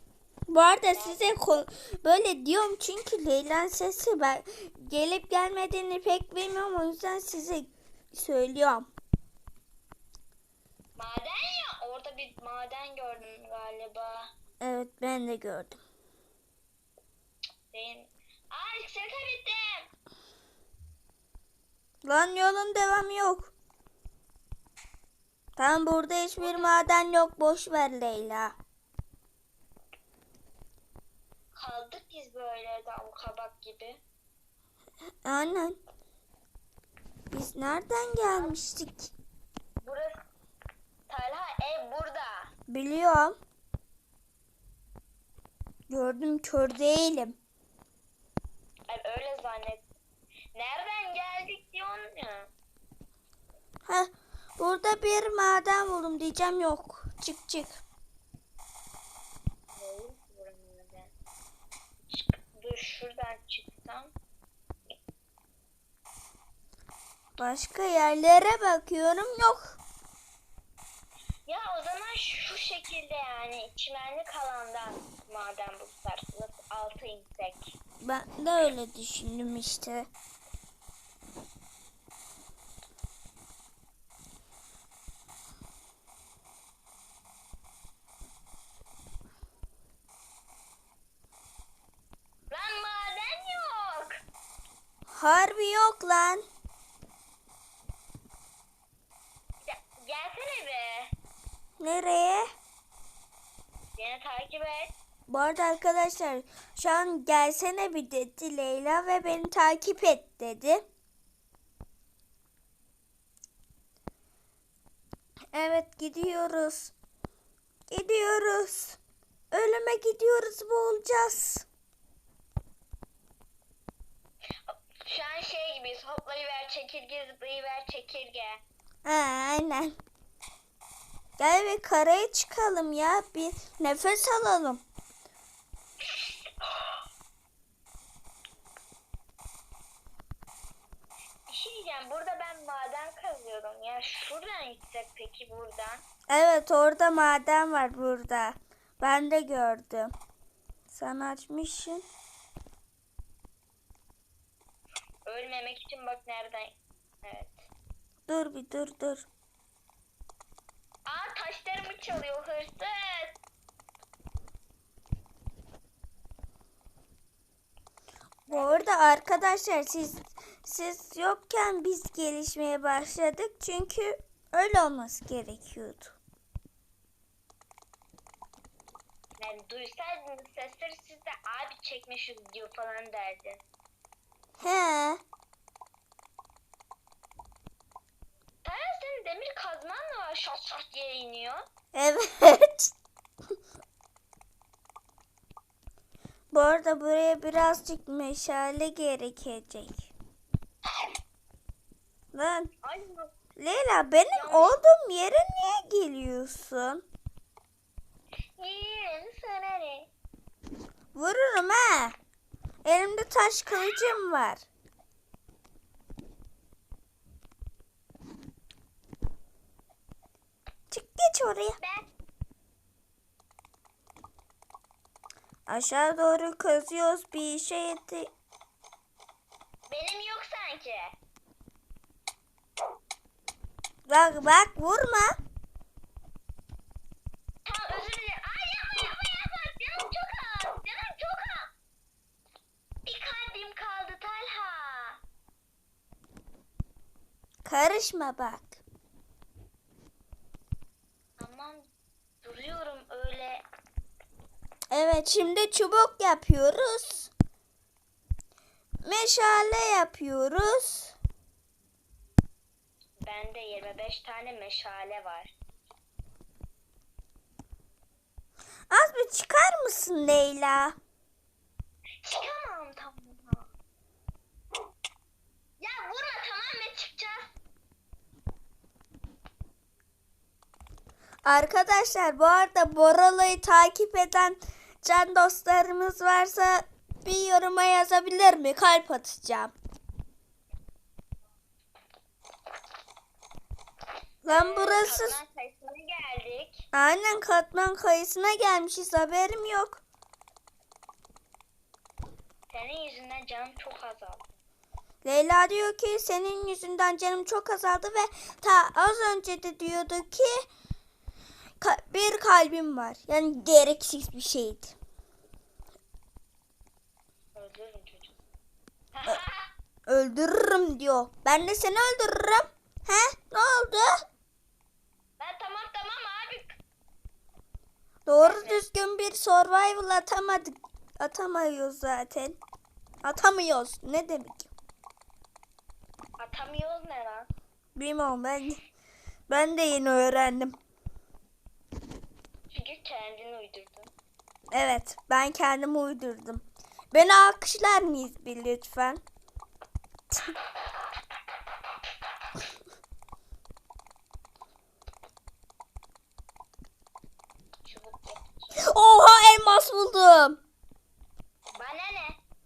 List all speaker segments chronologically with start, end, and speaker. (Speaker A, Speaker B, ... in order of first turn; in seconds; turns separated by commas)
Speaker A: 0.5-8.9, Speaker B: 0.9-1.6, Speaker B: 11.0-14.3, Speaker A: 14.6-15.8, Speaker B: 17.7-19.9, Speaker A: 22.0-23.5, Speaker A: 25.6-28.5, Speaker B: 26.4-26.9, Speaker B: 31.5-34.0, Speaker A: 35.2-35.8, Speaker A: 37.3-39.1, Speaker B: 38.3-38.6, Speaker B: 39.8-40.2, Speaker B: 41.1-42.5, Speaker A: 42.7-43.4, Speaker A: 45.9-47.3, Speaker B: 48.9-49.9, Speaker B: 50.5-52.5, Speaker A: 53.9-57.8, Speaker B: 59.8-61.1, Speaker B: 62.1-64.1, Speaker A: 67.4-69.8, Speaker B: 71.5-77.7, Speaker A: 78.0-80.1, Speaker B: 92.5-94.2, Speaker A: 95.1-96.4, Speaker B: 99.6-101.1, Speaker A: 101.8-102.5, Speaker B: 104.0-104.9, Speaker A: 105.3-110.8, Speaker A: 115.5-116.9, Speaker A: 117.9-119.0, Speaker A: 119.5-121.6, Speaker B: 124.7-128.6, Speaker A: 129.0-129.9, Speaker A: 131.4-134.8, Speaker B: 136.0-136.9, Speaker B: 141.5-146.0, Speaker A: 146.3-150.1, Speaker A: 150.9-152.0, Speaker B: 155.2-157.7, Speaker A: 158.3-159.2, Speaker B: 161.1-163.4, Speaker B: 168.4-168.9, Speaker A: 168.5-176.2, Speaker B: 179.4-183.6, Speaker A: 184.6-185.2, Speaker B: 188.6-191.6, Speaker A: 191.9-192.9, Speaker A: 196.5-200.1, Speaker A: 202.3-202.7, Speaker B: 202.8-203.3, Speaker A: 203.6-207.0, Speaker B: 204.3-204.8, Speaker B: 208.6-210.1, Speaker A: 211.1-212.2, Speaker A: 212.8-214.7, Speaker A: 220.9-221.8, Speaker B: 221.8-222.1, Speaker A: 225.7-228.3, Speaker B: 229.9-231.2, Speaker A: 234.1-235.4, Speaker B: 237.6-241.7, Speaker B: 243.0-245.2, Speaker A: 247.6-248.8, Speaker B: 251.4-251.8, Speaker B: 252.4-253.6, Speaker A: 254.9-257.3, Speaker A: 259.0-261.1, Speaker B: 263.2-265.5, Speaker A: 268.9-270.9, Speaker B: 272.2-273.7, Speaker B: 275.8-277.6, Speaker A: 281.4-289.7, Speaker A: 294.4-295.4, Speaker B: 294.5-296.8, Speaker A: 296.9-300.0, Speaker B: 302.7-304.5, Speaker A: 305.2-310.7, Speaker A: 311.8-314.9, Speaker B: 317.6-318.3, Speaker B: 319.1-319.7, Speaker A: 320.1-324.1, Speaker B: 325.4-326.8, Speaker A: 328.2-332.6, Speaker B: 328.4-328.8, Speaker A: 333.2-334.7, Speaker B: 336.4-337.5, Speaker A: 337.9-338.8, Speaker A: 339.5-340.8, Speaker B: 342.7-344.1, Speaker A: 344.7-349.2, Speaker B: 357.9-358.9, Speaker A: 358.8-360.6, Speaker B: 361.7-362.4